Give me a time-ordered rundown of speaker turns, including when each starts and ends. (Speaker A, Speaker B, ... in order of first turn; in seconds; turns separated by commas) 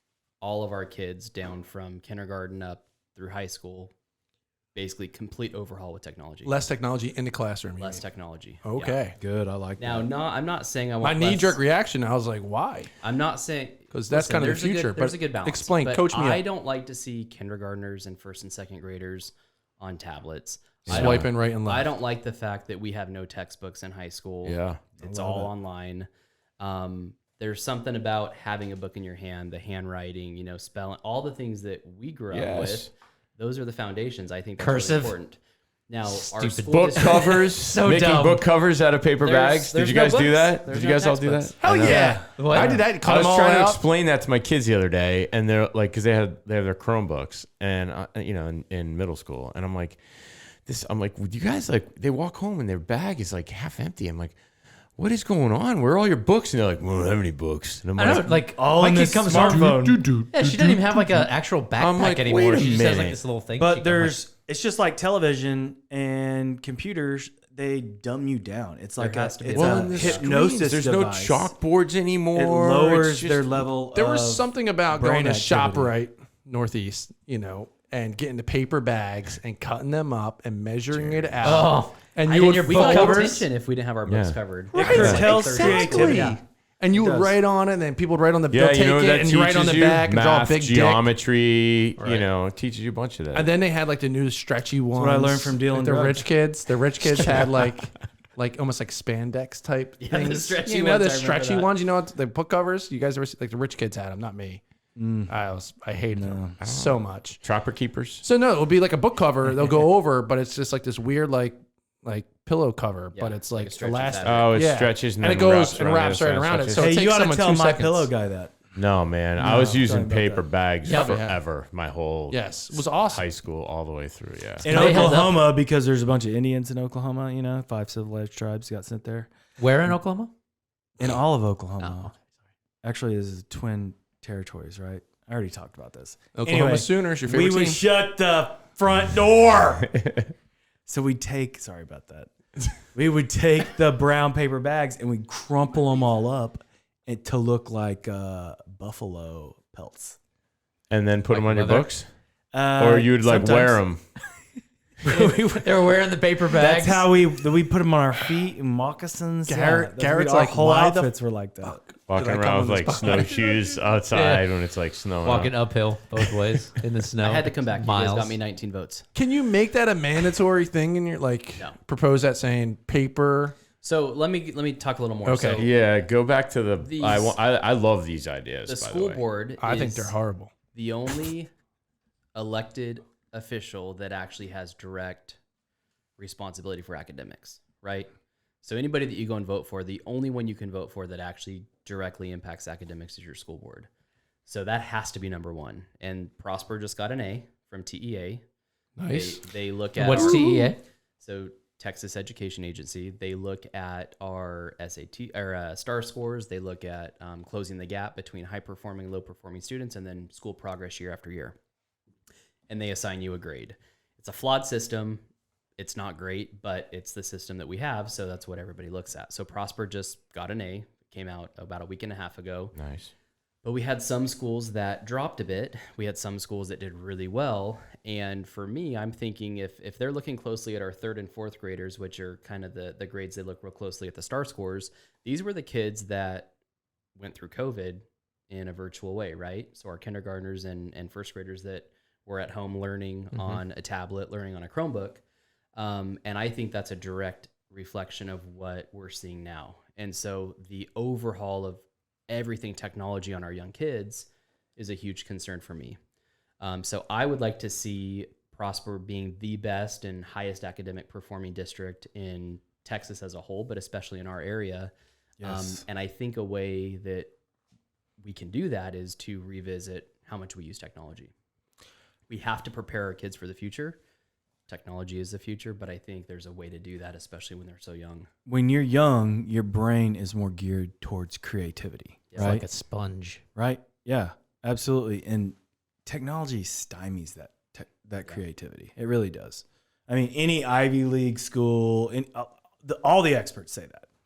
Speaker A: 0.4-3.9, Speaker A: 4.7-6.5, Speaker B: 6.4-8.0, Speaker A: 7.8-9.0, Speaker B: 8.6-9.2, Speaker C: 9.2-10.1, Speaker A: 9.8-11.6, Speaker B: 11.0-12.9, Speaker A: 13.0-26.1, Speaker B: 13.9-16.4, Speaker D: 20.9-21.3, Speaker B: 20.9-21.9, Speaker D: 24.4-24.8, Speaker C: 25.0-25.5, Speaker A: 26.6-37.5, Speaker D: 32.3-32.9, Speaker E: 34.6-35.1, Speaker E: 36.1-38.5, Speaker D: 36.4-42.1, Speaker A: 39.2-41.5, Speaker B: 41.6-43.8, Speaker C: 41.8-42.8, Speaker E: 42.1-42.9, Speaker D: 42.9-54.4, Speaker D: 55.0-58.5, Speaker E: 58.0-64.2, Speaker C: 58.5-60.0, Speaker D: 59.2-63.2, Speaker B: 60.4-61.0, Speaker C: 63.6-71.5, Speaker A: 69.0-70.2, Speaker D: 69.5-73.7, Speaker C: 72.3-75.9, Speaker B: 73.9-83.4, Speaker D: 80.9-81.5, Speaker E: 81.4-83.5, Speaker A: 82.7-86.4, Speaker D: 84.0-84.4, Speaker C: 84.7-87.4, Speaker B: 84.8-91.1, Speaker D: 84.9-85.4, Speaker D: 88.5-93.5, Speaker B: 92.0-92.2, Speaker B: 93.3-104.6, Speaker C: 94.9-96.3, Speaker A: 100.0-101.7, Speaker C: 105.0-105.3, Speaker B: 105.3-107.4, Speaker C: 106.1-106.5, Speaker D: 106.6-108.2, Speaker B: 108.2-118.1, Speaker A: 113.1-114.6, Speaker D: 114.2-116.9, Speaker C: 116.7-118.7, Speaker D: 118.7-124.8, Speaker C: 119.4-120.5, Speaker B: 120.8-121.4, Speaker E: 120.8-121.2, Speaker B: 122.3-123.2, Speaker E: 124.6-125.4, Speaker C: 124.6-129.3, Speaker E: 129.6-130.3, Speaker C: 131.0-132.1, Speaker E: 131.8-132.1, Speaker C: 132.8-139.9, Speaker B: 136.3-137.8, Speaker D: 139.9-140.2, Speaker C: 140.9-142.3, Speaker C: 142.9-150.2, Speaker D: 150.9-152.1, Speaker E: 151.3-151.9, Speaker C: 152.5-153.8, Speaker D: 152.8-154.0, Speaker E: 155.0-157.2, Speaker C: 155.1-155.4, Speaker C: 156.5-161.8, Speaker B: 159.5-163.8, Speaker D: 162.1-165.7, Speaker E: 164.1-164.5, Speaker E: 165.2-168.4, Speaker A: 167.2-169.1, Speaker B: 169.1-173.5, Speaker A: 173.8-175.8, Speaker B: 175.2-175.7, Speaker D: 175.6-179.2, Speaker A: 176.8-177.4, Speaker A: 178.7-180.1, Speaker B: 179.6-180.5, Speaker A: 180.7-181.5, Speaker A: 182.3-185.4, Speaker A: 186.2-188.1, Speaker A: 188.6-193.9, Speaker A: 194.4-198.4, Speaker B: 199.0-199.4, Speaker A: 199.1-200.7, Speaker E: 200.0-200.8, Speaker B: 200.0-200.7, Speaker A: 201.2-211.6, Speaker A: 212.7-215.2, Speaker A: 215.8-222.8, Speaker D: 222.7-223.1, Speaker A: 223.6-236.5, Speaker A: 237.2-245.2, Speaker A: 245.8-256.0, Speaker A: 256.6-264.9, Speaker C: 265.4-265.8, Speaker A: 265.4-267.3, Speaker A: 268.2-271.3, Speaker A: 272.3-274.0, Speaker A: 274.7-278.3, Speaker C: 278.4-282.6, Speaker A: 282.3-282.6, Speaker E: 282.4-283.4, Speaker C: 283.6-285.5, Speaker C: 286.1-294.1